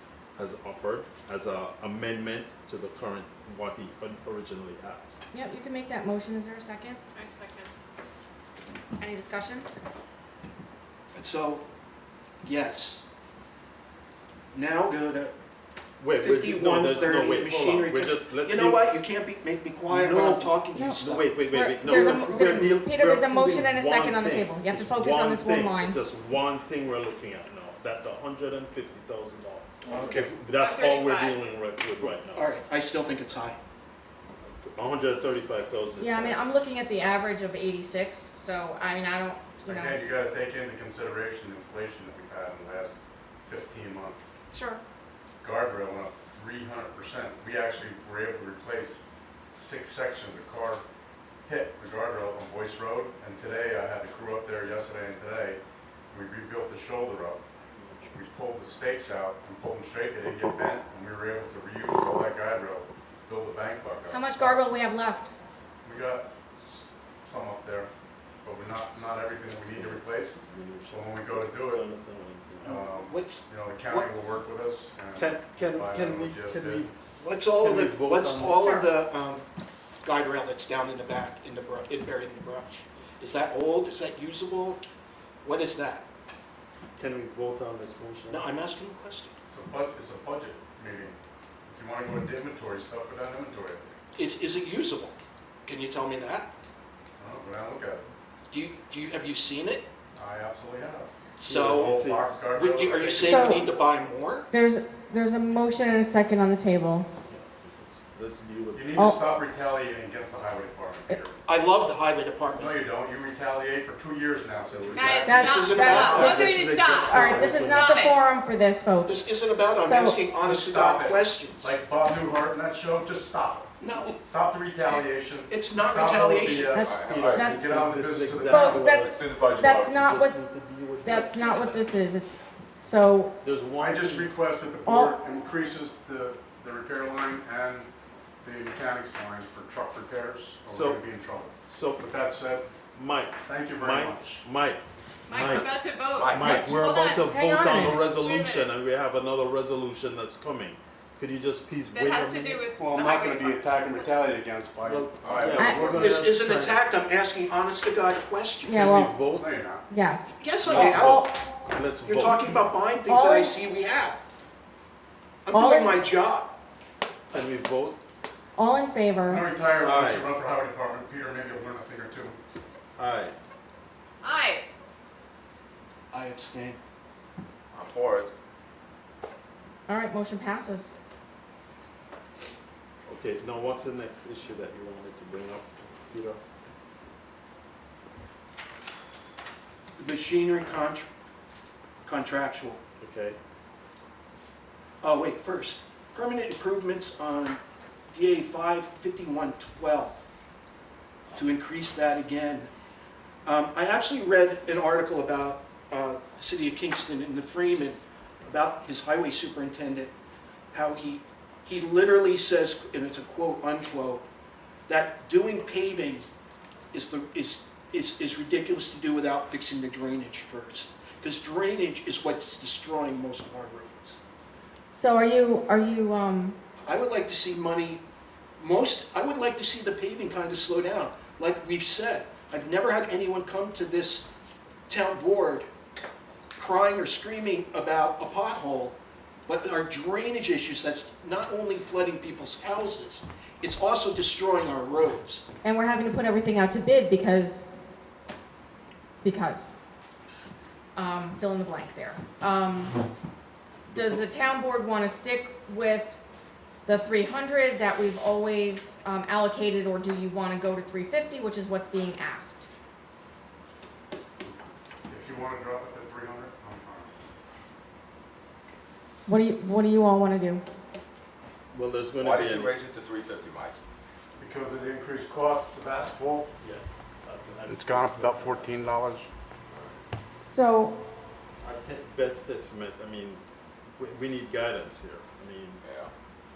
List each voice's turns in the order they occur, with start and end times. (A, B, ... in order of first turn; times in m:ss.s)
0:00.4-0:05.2 A
0:05.3-0:07.0 B
0:07.2-0:07.7 C
0:09.0-0:09.7 B
0:11.1-0:11.6 D
0:12.4-0:13.0 D
0:14.5-0:15.3 D
0:16.0-0:18.8 A
0:16.1-0:21.3 D
0:19.9-0:32.4 A
0:20.8-0:26.0 B
0:21.8-0:22.7 D
0:29.9-0:30.3 D
0:29.9-0:30.2 B
0:30.5-0:31.4 C
0:32.3-0:33.6 D
0:34.4-0:36.4 A
0:36.0-0:40.0 B
0:39.7-0:44.3 E
0:44.5-0:44.8 B
0:45.4-0:50.8 E
0:51.5-0:55.6 E
0:56.1-0:57.4 E
0:57.7-0:58.1 A
0:58.1-1:04.7 E
1:04.1-1:05.3 B
1:05.8-1:07.9 E
1:08.4-1:11.8 E
1:09.4-1:12.8 A
1:12.6-1:14.1 D
1:12.6-1:16.9 E
1:15.2-1:16.9 A
1:17.2-1:19.5 D
1:17.6-1:18.7 A
1:20.0-1:24.8 D
1:25.4-1:26.0 D
1:27.0-1:28.5 A
1:28.3-1:29.3 D
1:29.5-1:33.8 E
1:34.2-1:36.5 D
1:37.2-1:38.1 E
1:38.5-1:39.9 D
1:40.2-1:43.6 E
1:41.4-1:42.0 D
1:41.4-1:42.3 A
1:42.5-1:44.5 D
1:43.2-1:43.6 B
1:44.5-1:47.1 B
1:47.3-1:49.1 A
1:48.7-1:51.4 E
1:51.4-1:52.8 D
1:52.6-1:56.1 E
1:54.7-1:58.1 A
1:55.0-1:58.2 C
1:55.2-1:56.9 D
1:55.3-1:59.3 B
1:59.0-2:01.8 D
1:59.8-2:00.2 B
2:00.4-2:08.8 E
2:03.8-2:04.1 D
2:05.5-2:06.8 D
2:06.7-2:07.6 B
2:06.8-2:07.5 F
2:07.0-2:11.8 A
2:08.4-2:10.4 B
2:09.0-2:10.0 F
2:11.0-2:13.3 B
2:13.4-2:14.3 A
2:13.8-2:17.9 E
2:14.9-2:15.1 B
2:18.4-2:22.7 E
2:20.7-2:21.0 A
2:21.7-2:22.0 A
2:22.9-2:32.6 A
2:23.5-2:24.4 E
2:25.3-2:27.3 C
2:26.1-2:26.8 F
2:27.3-2:28.0 B
2:28.0-2:28.7 C
2:31.9-2:33.6 C
2:32.8-2:36.3 E
2:34.8-2:36.8 A
2:35.2-2:35.7 F
2:35.6-2:35.9 B
2:35.8-2:38.8 D
2:38.7-2:39.2 B
2:38.7-2:39.6 A
2:39.2-2:39.9 E
2:39.9-2:41.4 B
2:40.4-2:41.2 D
2:40.6-2:42.7 A
2:42.0-2:44.2 D
2:43.1-2:43.5 B
2:45.4-2:46.5 D
2:45.5-2:46.0 B
2:47.3-2:48.0 A
2:48.6-2:49.5 B
2:49.3-2:52.4 E
2:49.8-2:50.3 A
2:53.0-2:53.4 A
2:54.2-2:54.7 C
2:56.1-2:56.8 D
2:57.7-2:58.3 F
2:59.9-3:00.9 B
3:03.1-3:06.4 A
3:10.0-3:11.1 D
3:12.0-3:12.8 D
3:13.0-3:13.4 A
3:15.0-3:17.6 D
3:18.1-3:20.2 D
3:21.3-3:22.7 D
3:23.4-3:30.1 D
3:30.7-3:34.2 D
3:34.9-3:36.3 D
3:36.9-3:44.2 D
3:44.9-3:46.6 B
3:46.9-3:48.0 D
3:48.6-3:54.3 D
3:54.9-3:55.7 D
3:56.6-3:59.0 D
3:59.5-4:05.4 D
4:05.6-4:07.7 B
4:09.2-4:09.7 B
4:11.0-4:13.0 B
4:13.9-4:16.2 B
4:16.8-4:22.7 B
4:25.1-4:27.1 E
4:29.3-4:30.6 B
4:31.7-4:32.8 A
4:32.2-4:33.8 F
4:34.4-4:36.5 E
4:36.6-4:38.8 A
4:37.7-4:39.3 E
4:39.7-4:40.0 F
4:40.4-4:41.0 B
4:41.6-4:43.4 A
4:44.0-4:45.8 A
4:45.8-4:46.1 F